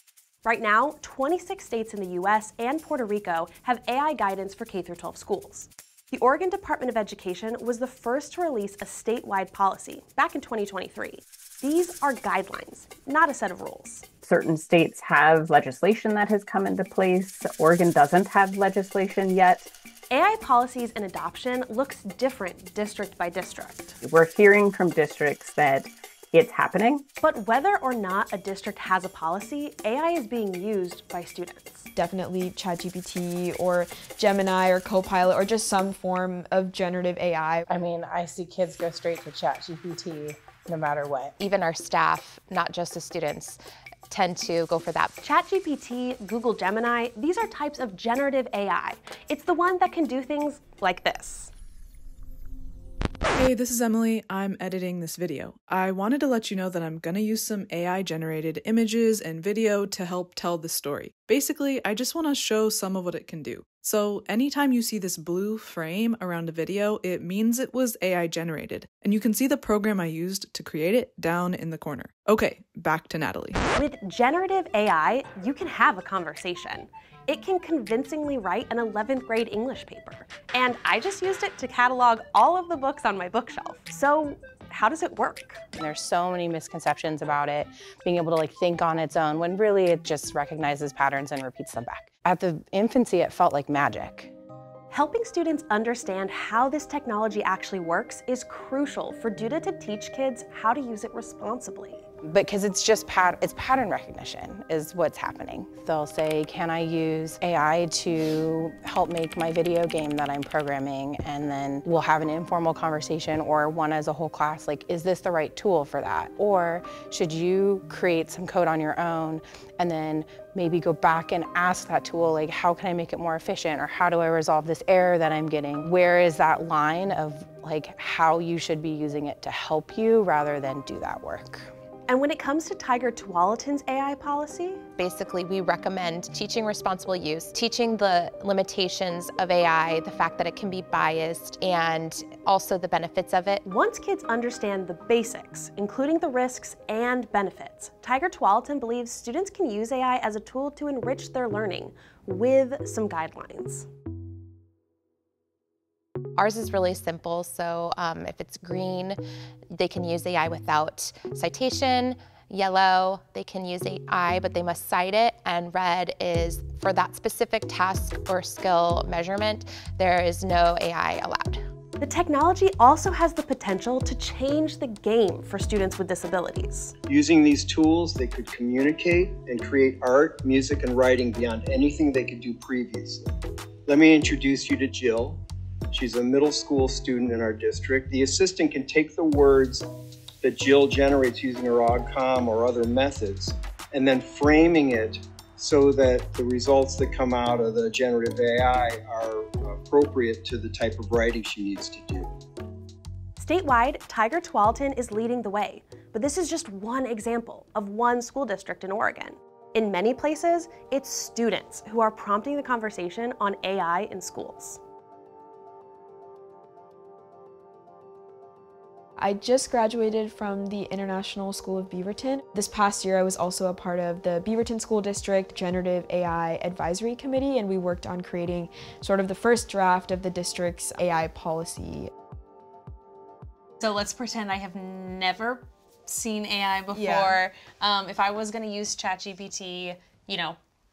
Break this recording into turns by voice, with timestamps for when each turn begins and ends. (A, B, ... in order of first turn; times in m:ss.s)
0:00.4-0:14.1 A
0:14.2-0:19.7 B
0:20.1-0:24.0 A
0:24.0-0:27.0 B
0:27.2-0:31.9 A
0:32.0-0:37.6 C
0:37.7-0:41.3 D
0:41.4-0:43.6 E
0:44.1-0:45.2 E
0:45.2-0:51.5 A
0:53.3-1:13.6 F
1:13.8-1:25.6 A
1:25.8-1:34.3 D
1:34.9-1:42.0 A
1:42.3-2:11.7 D
2:12.1-2:14.8 A
2:15.0-2:23.6 E
2:23.6-2:33.9 A
2:36.4-2:39.2 E
2:39.7-2:51.6 E
2:52.0-2:57.0 A
2:57.1-3:03.3 G
3:03.9-3:09.9 G
3:10.4-3:22.3 G
3:23.4-3:34.8 A
3:39.2-3:52.1 C
3:53.8-4:00.6 H
3:56.9-3:57.4 C